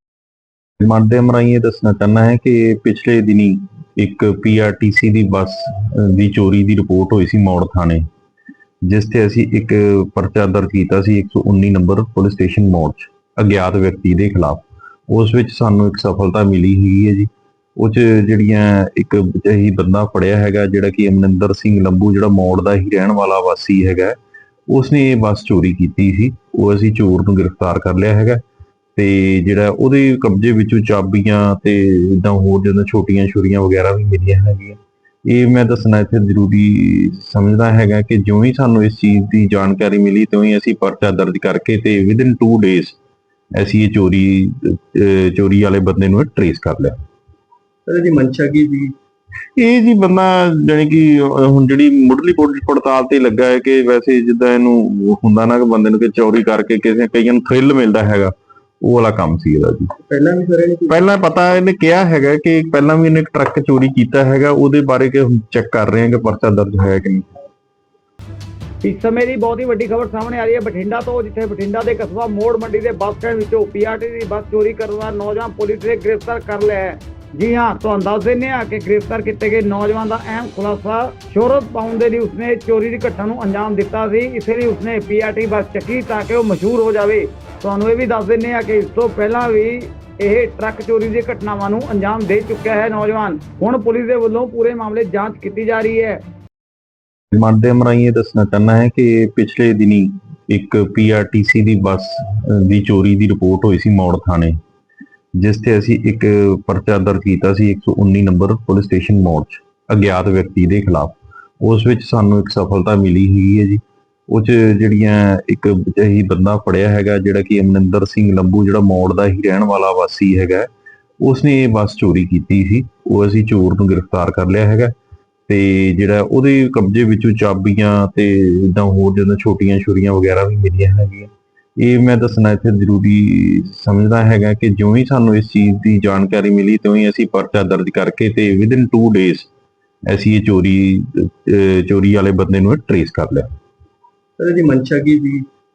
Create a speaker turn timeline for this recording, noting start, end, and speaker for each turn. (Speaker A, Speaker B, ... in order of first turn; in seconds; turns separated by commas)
Speaker A: 0.8-8.1, Speaker A: 8.8-24.2, Speaker A: 24.7-28.4, Speaker A: 29.0-43.0, Speaker A: 43.5-47.0, Speaker B: 47.9-48.9, Speaker A: 49.6-59.9, Speaker B: 60.0-61.0, Speaker A: 60.9-67.3, Speaker C: 68.8-96.2, Speaker A: 97.3-104.6, Speaker A: 105.4-120.7, Speaker A: 121.2-124.9, Speaker A: 125.5-139.5, Speaker A: 140.1-143.5, Speaker B: 144.4-145.5